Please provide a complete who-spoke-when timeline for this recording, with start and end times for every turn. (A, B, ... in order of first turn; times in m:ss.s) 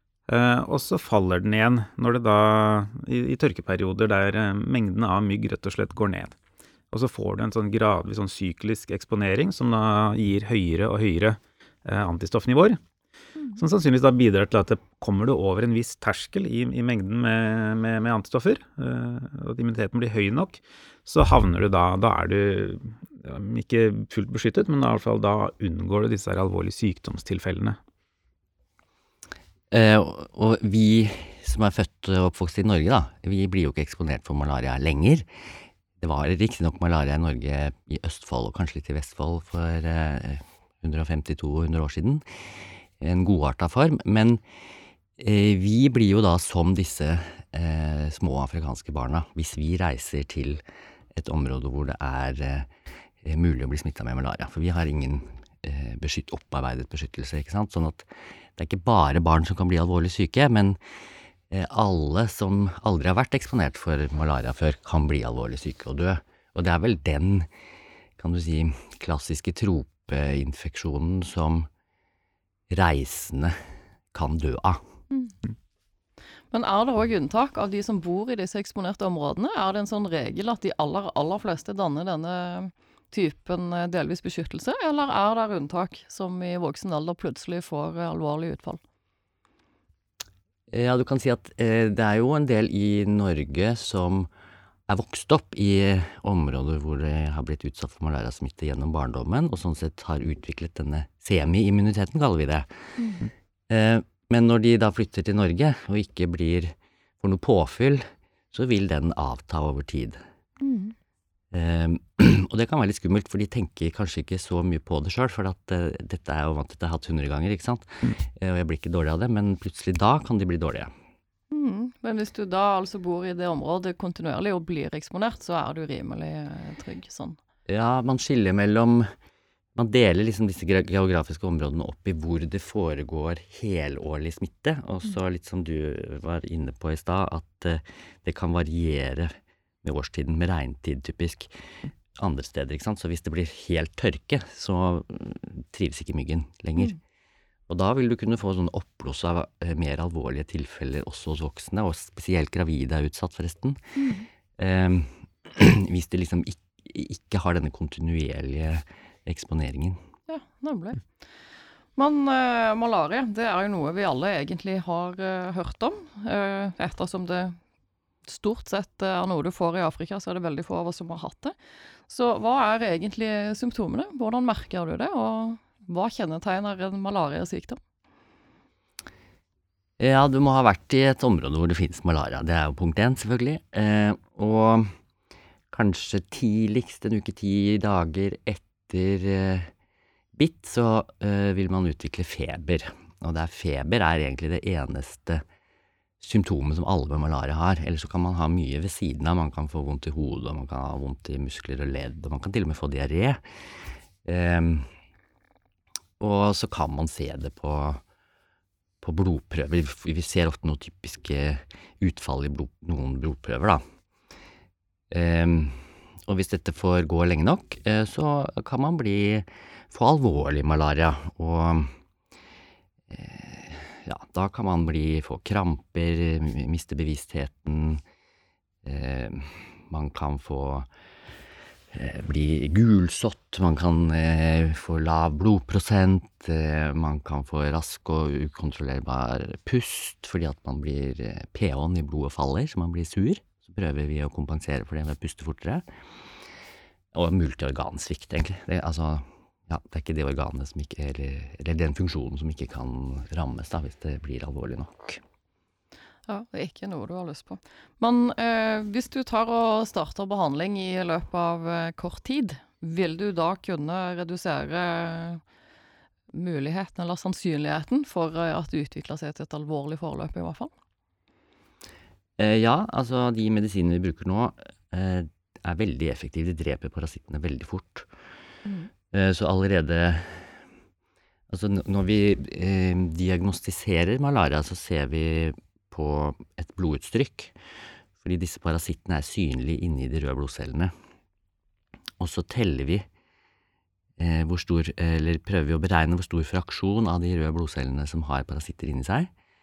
0:00.3-0:06.3 A
0:06.9-0:12.8 A
0:13.6-0:27.8 A
0:29.7-0:35.2 B
0:36.0-0:42.2 B
0:43.0-0:44.4 B
0:45.2-0:50.6 B
0:51.1-0:52.7 B
0:53.2-0:58.0 B
0:58.6-1:00.8 B
1:01.5-1:07.5 B
1:08.2-1:11.7 B
1:12.7-1:13.6 B
1:14.1-1:14.8 B
1:16.5-1:28.8 C
1:30.7-1:34.3 B
1:34.9-1:42.7 B
1:43.0-1:43.3 C
1:43.7-1:50.2 B
1:50.6-1:50.9 C
1:51.5-2:00.9 B
2:01.5-2:07.4 C
2:07.7-2:09.1 B
2:09.8-2:21.5 B
2:22.1-2:27.0 B
2:27.7-2:33.8 B
2:34.0-2:34.3 C
2:34.6-2:40.0 B
2:40.3-2:41.0 C
2:42.0-2:47.6 C
2:48.3-2:51.6 C
2:52.1-2:57.8 C
3:00.0-3:04.9 B
3:05.7-3:09.7 B
3:10.4-3:15.4 B
3:16.2-3:23.4 B
3:24.2-3:24.9 B
3:26.2-3:28.0 B
3:29.0-3:33.8 B
3:35.1-3:41.9 B
3:43.1-3:48.0 B
3:48.8-3:50.9 B
3:51.9-4:05.8 B
4:07.1-4:15.2 B
4:16.3-4:25.4 C
4:26.3-4:30.7 C
4:32.4-4:38.1 B
4:38.6-4:38.9 C
4:39.1-4:40.6 B
4:41.5-4:47.6 B
4:48.2-4:50.9 B
4:52.2-4:53.0 B
4:54.2-4:59.3 B